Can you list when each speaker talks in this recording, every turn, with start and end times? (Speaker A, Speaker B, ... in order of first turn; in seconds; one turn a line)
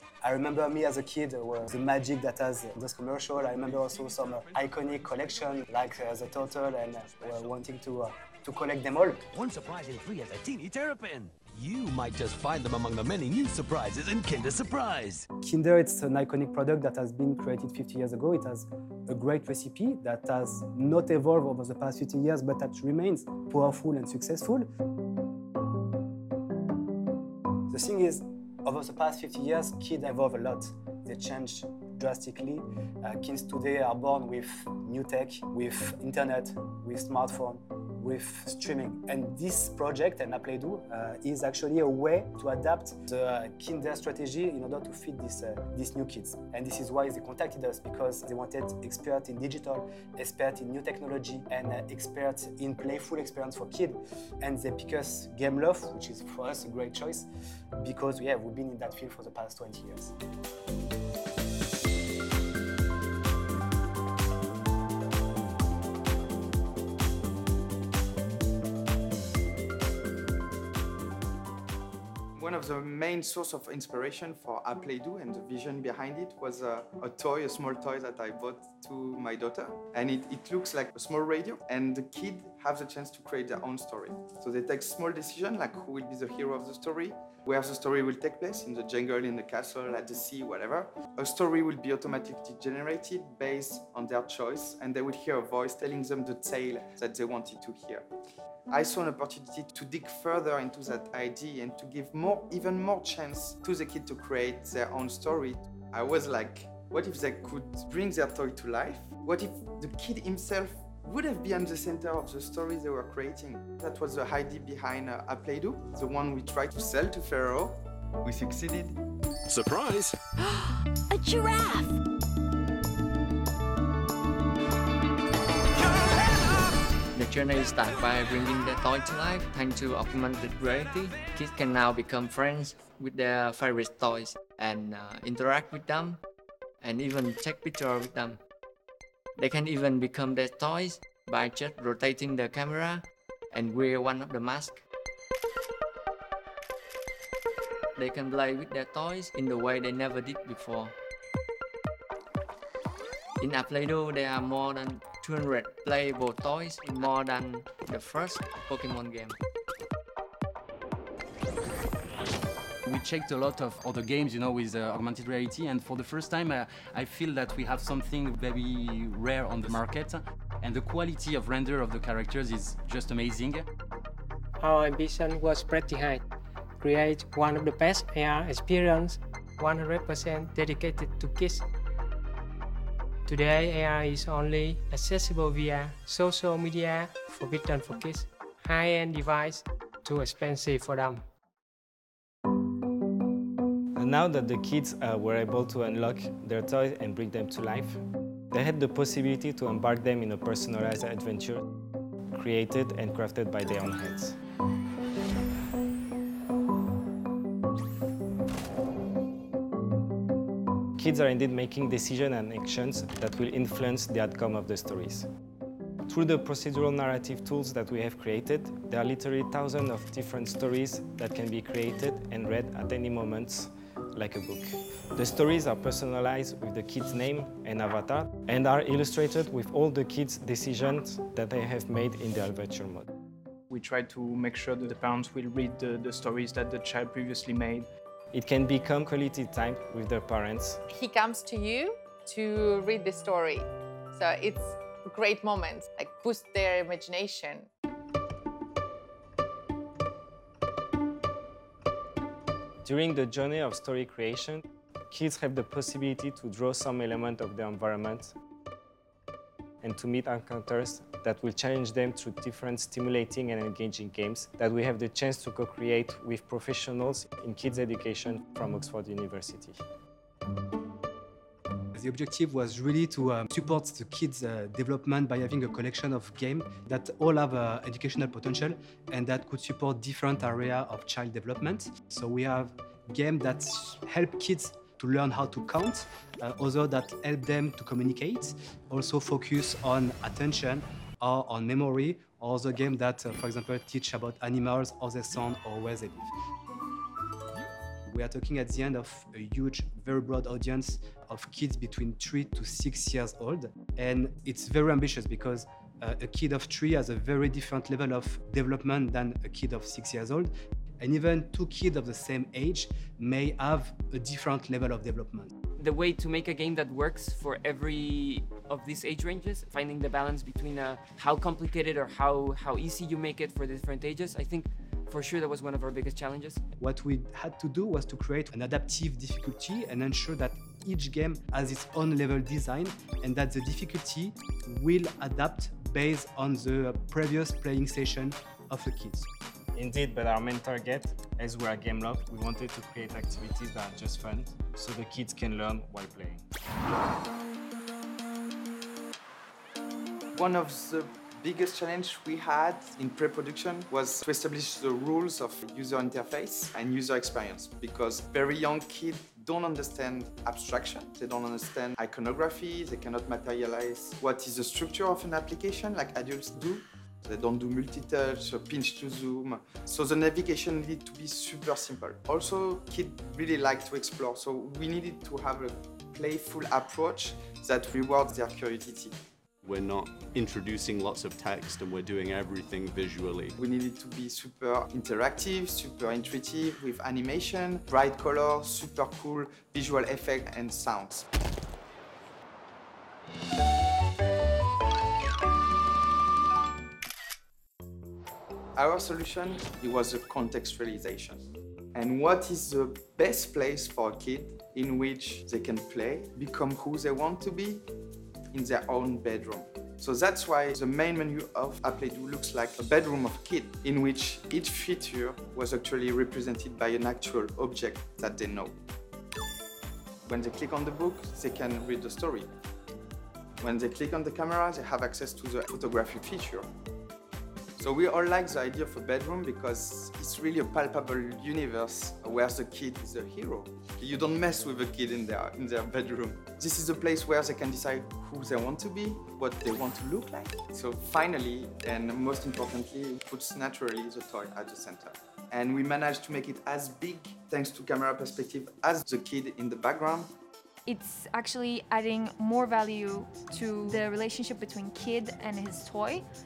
Speaker A: 0.2-9.3
Speaker B: 9.4-14.9
Speaker A: 15.4-24.7
Speaker A: 27.7-57.3
Speaker A: 57.8-60.1
Speaker C: 72.4-98.1
Speaker C: 98.7-119.0
Speaker D: 119.5-120.1
Speaker E: 127.1-136.2
Speaker E: 136.8-138.4
Speaker E: 139.4-144.8
Speaker E: 147.9-150.9
Speaker E: 153.4-159.4
Speaker D: 162.8-173.7
Speaker F: 174.6-176.2
Speaker F: 176.8-181.7
Speaker F: 183.2-191.2
Speaker G: 193.9-201.6
Speaker G: 202.3-204.3
Speaker G: 211.0-215.3
Speaker G: 216.1-233.1
Speaker H: 233.7-237.9
Speaker G: 238.3-240.8
Speaker I: 240.9-247.7
Speaker G: 252.8-258.3
Speaker G: 259.8-269.8
Speaker A: 271.9-296.3
Speaker A: 298.1-315.5
Speaker J: 315.8-326.6
Speaker A: 326.8-339.3
Speaker G: 339.8-346.4
Speaker C: 350.4-379.1
Speaker K: 379.6-383.6
Speaker C: 383.6-391.3
Speaker C: 398.8-401.4
Speaker C: 401.9-407.8
Speaker C: 408.5-418.8
Speaker C: 420.2-422.5
Speaker C: 423.6-426.7
Speaker C: 427.8-450.3
Speaker L: 450.9-456.2